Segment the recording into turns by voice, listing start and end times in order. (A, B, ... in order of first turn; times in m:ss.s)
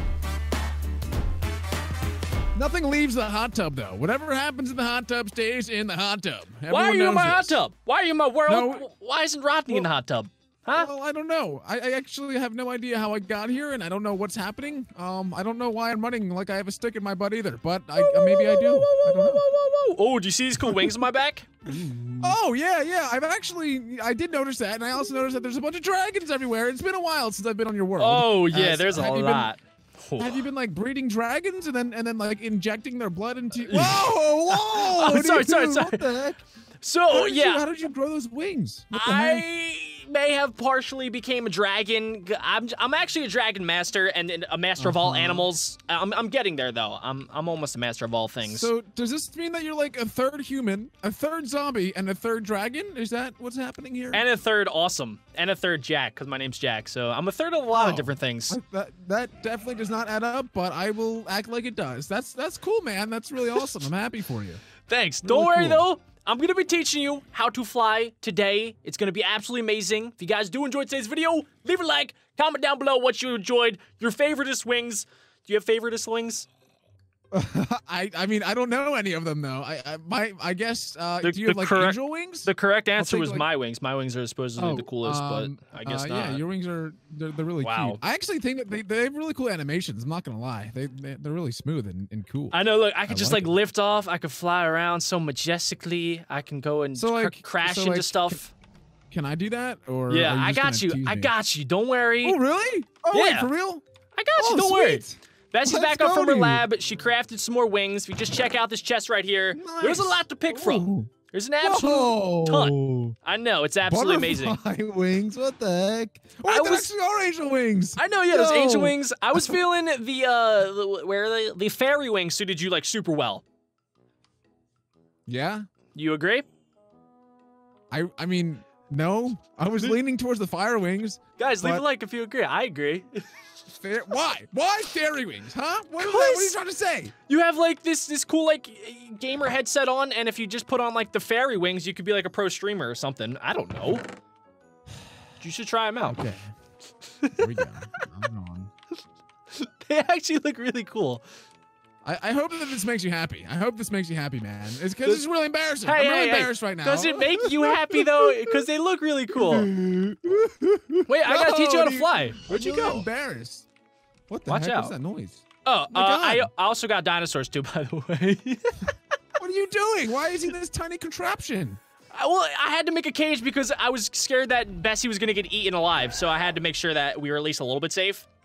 0:02.5-0:07.6 A
0:06.7-0:10.9 B
0:08.5-0:08.9 A
0:10.7-0:19.4 A
0:18.0-0:22.3 B
0:20.6-0:21.0 A
0:21.7-0:29.5 A
0:28.0-0:30.4 B
0:30.2-0:36.4 A
0:33.5-0:36.2 B
0:36.8-0:37.6 B
0:37.1-0:39.4 A
0:38.9-0:48.7 B
0:44.8-0:45.5 A
0:48.4-0:54.2 A
0:54.1-0:58.6 B
0:57.7-1:04.6 A
1:04.9-1:16.5 B
1:05.2-1:05.8 A
1:17.3-1:23.5 A
1:21.2-1:26.4 B
1:24.6-1:33.6 A
1:27.6-1:28.0 B
1:32.5-1:38.5 B
1:36.9-1:38.4 A
1:39.1-1:41.3 A
1:40.1-1:42.4 B
1:42.2-1:43.8 A
1:43.1-1:43.5 B
1:44.1-1:54.6 B
1:44.4-1:46.6 A
1:49.5-1:51.1 A
1:51.6-1:53.2 A
1:53.8-1:59.6 A
1:56.4-1:56.9 B
1:58.0-2:03.4 B
2:05.3-2:05.6 A
2:05.9-2:06.4 B
2:07.9-2:11.8 A
2:11.4-2:13.2 B
2:13.7-2:17.1 A
2:16.0-2:16.6 B
2:17.3-2:24.0 B
2:25.4-2:26.2 B
2:26.0-2:26.5 A
2:27.2-2:28.0 B
2:27.4-2:28.7 A
2:29.5-2:31.2 B
2:32.0-2:38.6 A
2:35.8-2:39.7 B
2:39.3-2:43.6 A
2:41.1-2:43.0 B
2:44.3-2:46.5 A
2:44.5-2:44.9 B
2:45.6-2:48.9 B
2:49.4-2:51.8 A
2:52.1-2:58.2 B